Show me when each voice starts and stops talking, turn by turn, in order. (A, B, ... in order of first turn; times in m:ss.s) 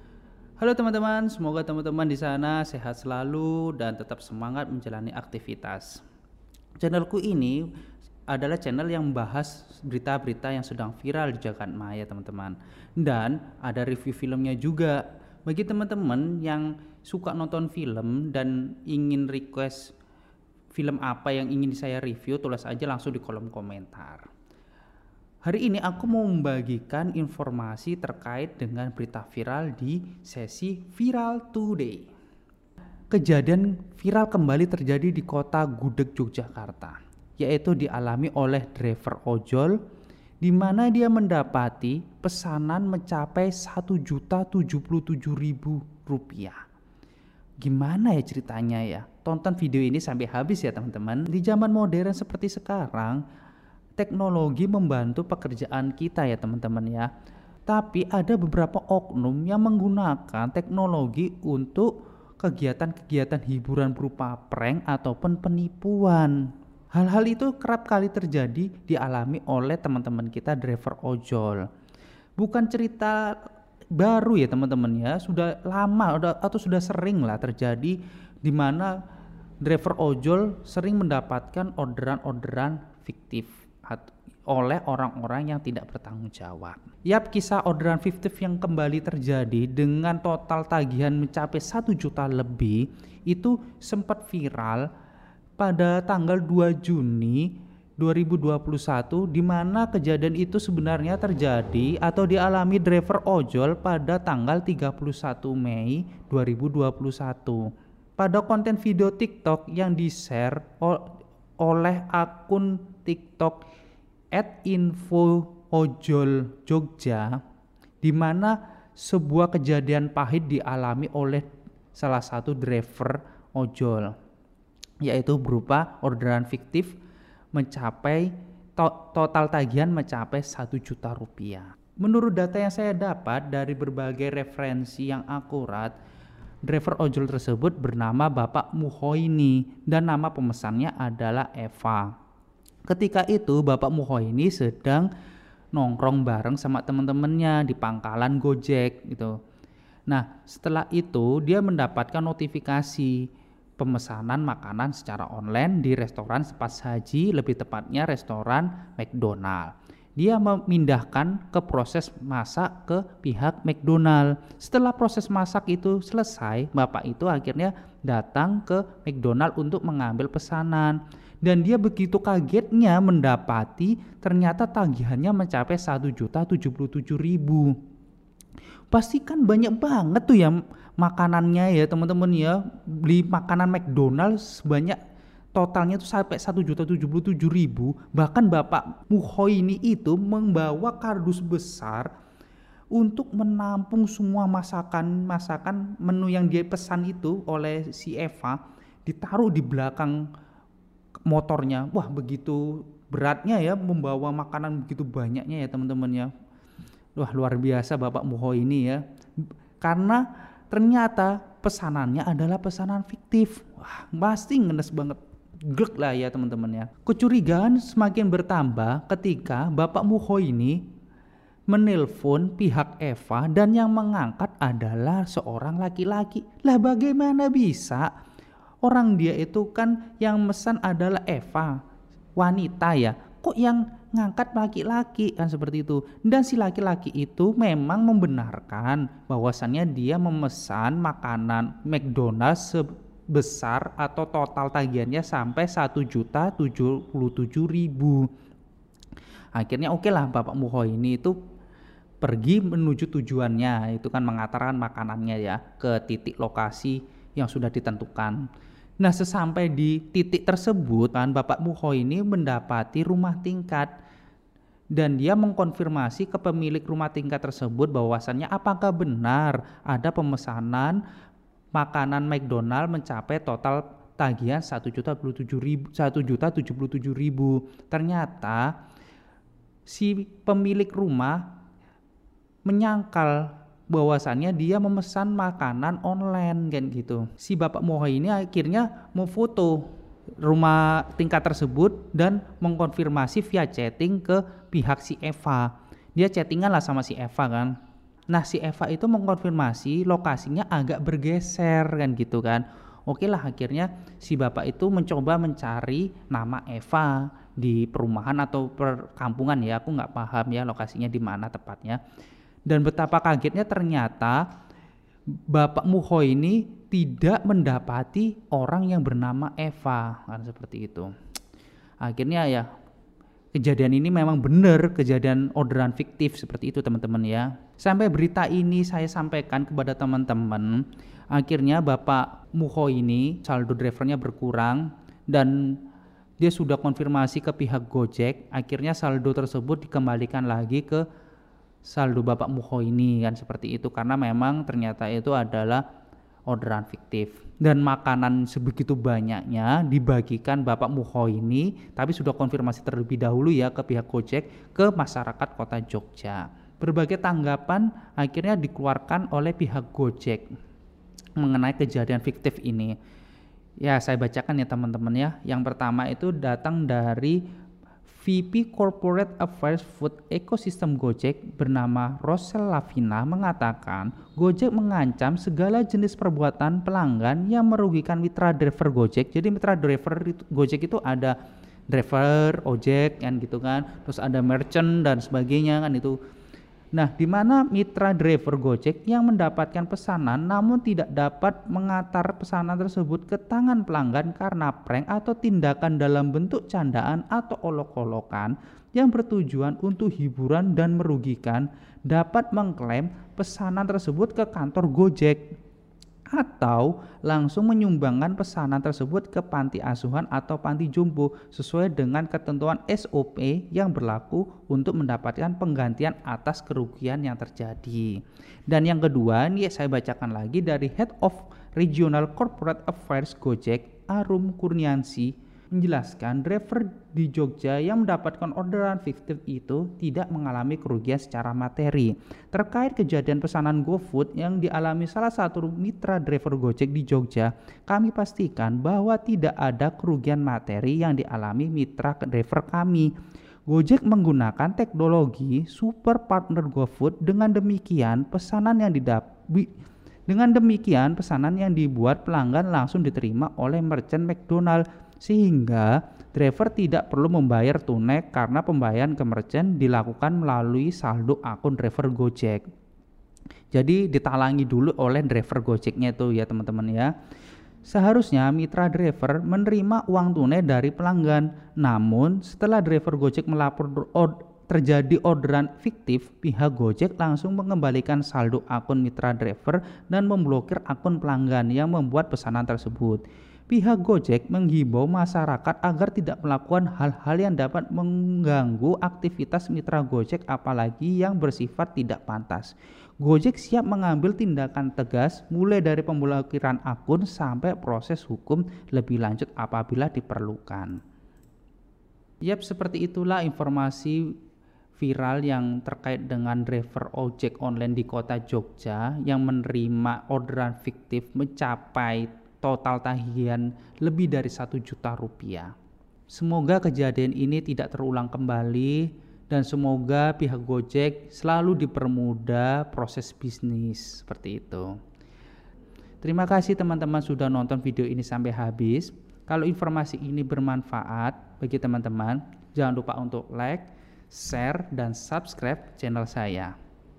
0:00.6-0:06.0 A
0:06.8-0:07.7 A
0:08.3-0:19.9 A
0:20.7-0:24.2 A
0:25.4-0:32.1 A
0:33.1-0:39.8 A
0:40.4-0:46.6 A
0:47.6-0:53.2 A
0:54.0-0:57.1 A
0:57.7-1:11.6 A
1:12.4-1:13.4 A
1:14.0-1:18.9 A
1:19.6-1:34.9 A
1:35.6-1:53.6 A
1:54.3-1:57.4 A
1:58.0-2:04.1 A
2:05.0-2:07.0 A
2:07.5-2:15.9 A
2:16.6-2:22.1 A
2:22.9-2:25.1 A
2:25.7-2:29.3 A
2:30.1-2:33.2 A
2:33.8-2:57.8 A
2:58.9-3:05.0 A
3:05.6-3:12.1 A
3:12.9-3:20.3 A
3:21.3-3:26.3 A
3:27.2-3:29.0 A
3:29.8-3:40.8 A
3:41.7-3:48.1 A
3:48.8-3:51.8 A
3:52.4-4:08.3 A
4:09.6-4:11.4 A
4:12.2-4:18.4 A
4:19.0-4:23.9 A
4:25.0-4:31.0 A
4:31.8-4:38.8 A
4:39.9-4:41.5 A
4:42.7-4:49.9 A
4:50.4-4:57.8 A
4:58.3-5:12.0 A
5:12.7-5:14.5 A
5:15.5-5:21.1 A
5:22.0-5:22.7 A
5:23.6-5:35.8 A
5:36.4-5:41.0 A
5:41.8-5:45.8 A
5:46.5-6:00.5 A
6:01.4-6:02.9 A
6:03.8-6:07.4 A
6:08.2-6:21.4 A
6:21.9-6:26.2 A
6:26.9-6:45.4 A
6:46.3-7:23.1 A
7:23.7-7:29.7 A
7:30.3-7:42.6 A
7:43.7-7:47.1 A
7:47.9-8:21.0 A
8:22.4-8:24.4 A
8:25.0-8:35.7 A
8:36.3-8:45.0 A
8:46.2-8:56.7 A